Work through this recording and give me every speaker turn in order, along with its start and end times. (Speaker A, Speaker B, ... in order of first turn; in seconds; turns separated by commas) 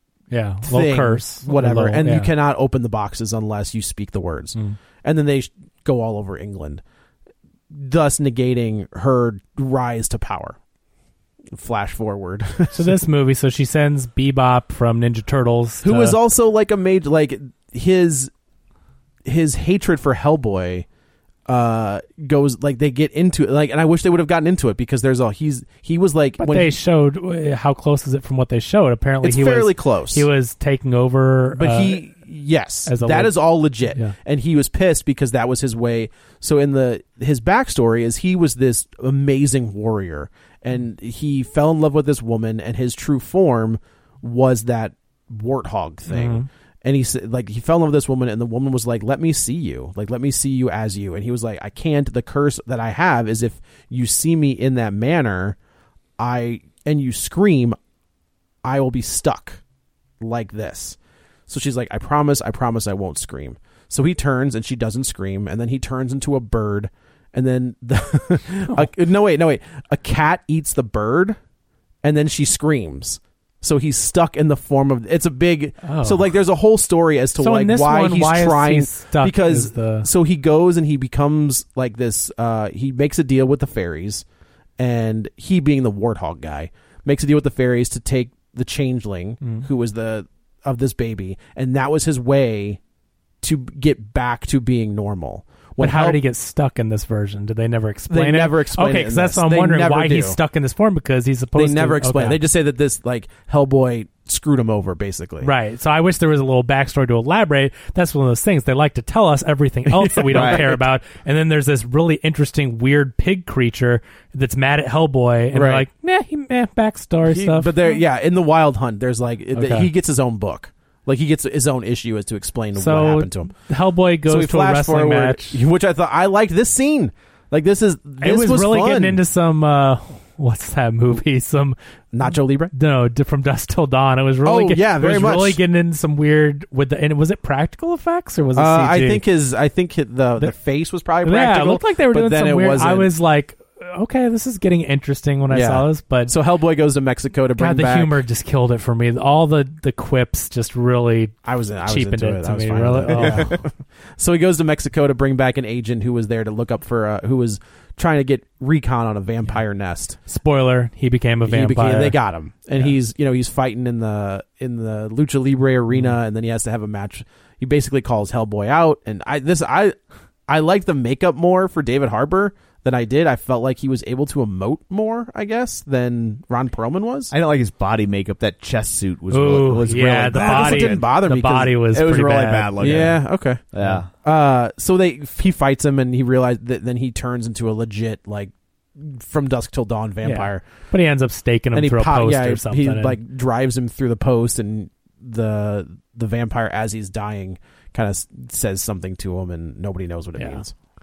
Speaker A: 0.3-2.3, Speaker B: 0.6-6.8, Speaker B: 7.7-10.6, Speaker B: 11.5-12.9, Speaker A: 12.7-16.2, Speaker B: 15.8-18.3, Speaker B: 19.2-20.9, Speaker B: 21.5-26.7, Speaker A: 26.4-32.0, Speaker B: 29.2-30.2, Speaker B: 31.5-55.5, Speaker A: 32.9-33.3, Speaker A: 46.1-46.5, Speaker B: 56.2-57.8, Speaker B: 58.6-59.6, Speaker B: 60.2-61.0, Speaker B: 61.5-71.4, Speaker B: 72.0-84.2, Speaker A: 75.8-76.2, Speaker A: 77.4-80.1, Speaker B: 84.8-92.8, Speaker B: 93.4-96.2, Speaker A: 95.8-102.4, Speaker B: 98.1-100.4, Speaker B: 101.6-105.5, Speaker A: 105.4-117.9, Speaker B: 109.9-110.8, Speaker C: 110.3-110.7, Speaker B: 115.5-115.8, Speaker B: 117.2-123.5, Speaker A: 119.5-119.9, Speaker A: 122.8-125.6, Speaker B: 124.2-129.2, Speaker A: 128.2-139.2, Speaker B: 132.1-132.7, Speaker B: 134.4-135.6, Speaker B: 138.5-143.1, Speaker A: 141.2-146.3, Speaker B: 145.5-148.2, Speaker A: 147.6-153.6, Speaker B: 151.4-153.7, Speaker B: 154.2-160.2, Speaker A: 160.3-162.2, Speaker B: 161.4-169.9, Speaker A: 165.9-166.2, Speaker B: 170.5-177.3, Speaker C: 177.3-181.0, Speaker A: 179.3-182.8, Speaker B: 180.4-181.8, Speaker C: 181.9-183.2, Speaker B: 182.8-183.6, Speaker C: 183.7-184.1, Speaker B: 184.1-190.6, Speaker A: 190.2-193.2, Speaker B: 191.7-200.7, Speaker A: 200.4-200.6